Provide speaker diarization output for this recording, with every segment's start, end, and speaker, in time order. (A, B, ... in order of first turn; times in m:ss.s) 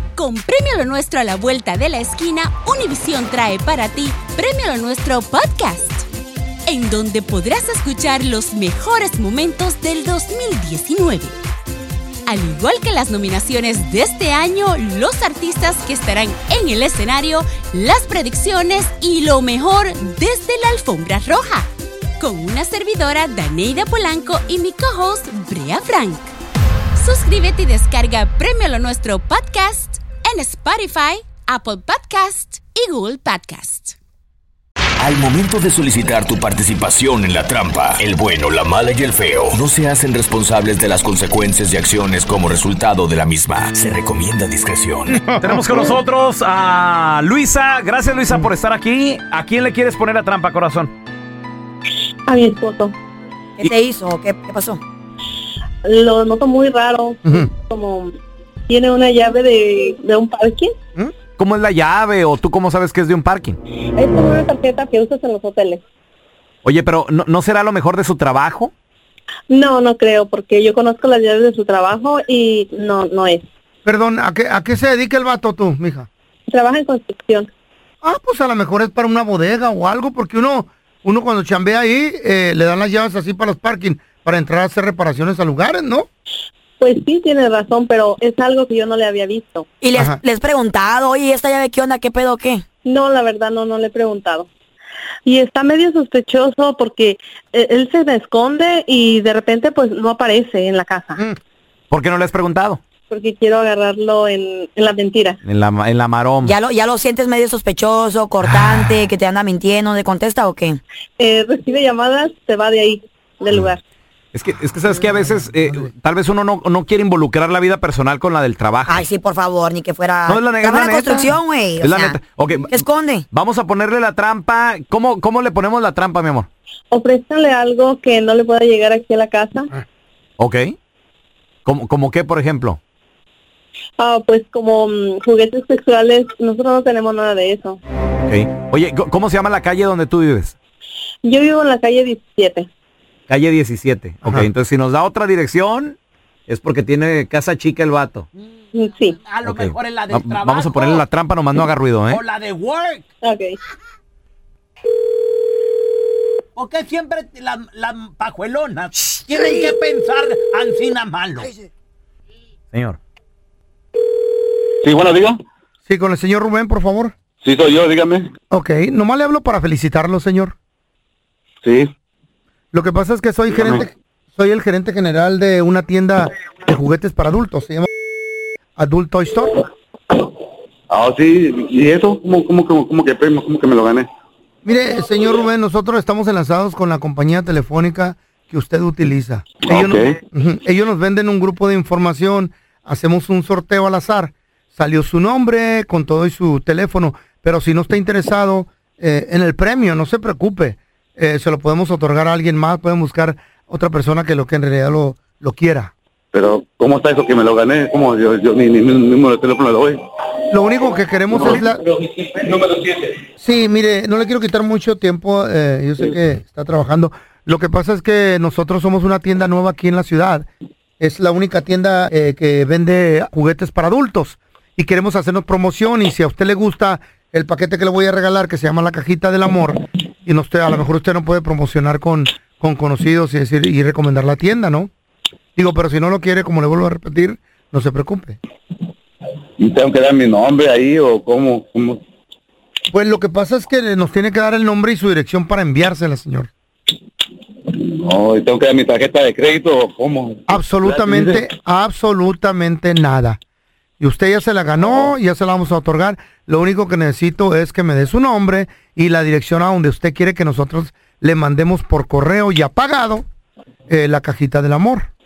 0:00.2-0:06.0 A
0:06.7-0:11.3 A
0:12.3-0:21.6 A
0:22.2-0:26.3 A
0:27.0-0:34.0 A
0:35.0-0:45.2 B
0:45.1-0:46.0 C
0:45.4-0:50.9 D
0:52.3-0:52.9 E
0:53.6-0:54.8 F
0:55.8-0:58.2 E
0:58.7-1:00.8 E
1:01.4-1:03.6 D
1:04.0-1:05.8 E
1:06.6-1:08.7 D
1:09.5-1:13.4 E
1:13.8-1:16.1 C
1:16.5-1:17.5 E
1:18.0-1:26.1 C
1:26.8-1:29.7 E
1:29.8-1:32.6 F
1:29.9-1:30.2 C
1:32.8-1:34.5 E
1:35.2-1:41.2 E
1:41.9-1:42.8 D
1:43.1-1:45.4 E
1:45.4-1:46.6 D
1:46.4-1:50.8 F
1:51.2-1:53.8 E
1:54.3-1:59.0 D
1:58.9-2:03.3 F
2:00.3-2:06.5 D
2:06.9-2:09.7 E
2:10.4-2:10.7 D
2:11.7-2:12.8 D
2:14.0-2:17.8 E
2:18.3-2:20.5 D
2:21.2-2:22.7 E
2:23.3-2:26.0 D
2:26.5-2:28.3 D
2:28.8-2:29.2 E
2:29.2-2:31.0 G
2:29.4-2:32.2 D
2:32.1-2:33.0 G
2:33.2-2:33.6 E
2:36.6-2:41.5 G
2:42.7-2:43.0 D
2:44.8-2:45.4 H
2:45.9-2:47.1 C
2:47.4-2:48.3 H
2:48.5-2:50.6 C
2:51.6-2:51.9 H
2:52.7-2:57.9 C
2:53.5-2:53.9 H
2:58.8-2:59.6 C
3:00.9-3:04.1 H
3:04.6-3:25.9 C
3:09.7-3:10.2 H
3:26.3-3:30.0 H
3:30.5-3:31.8 C
3:31.3-3:33.2 H
3:33.4-3:40.5 C
3:41.0-3:54.9 C
3:55.6-3:58.4 C
3:59.6-4:02.0 H
4:02.9-4:06.5 C
4:07.7-4:11.4 H
4:10.5-4:13.4 C
4:14.0-4:23.2 C
4:23.9-4:25.1 C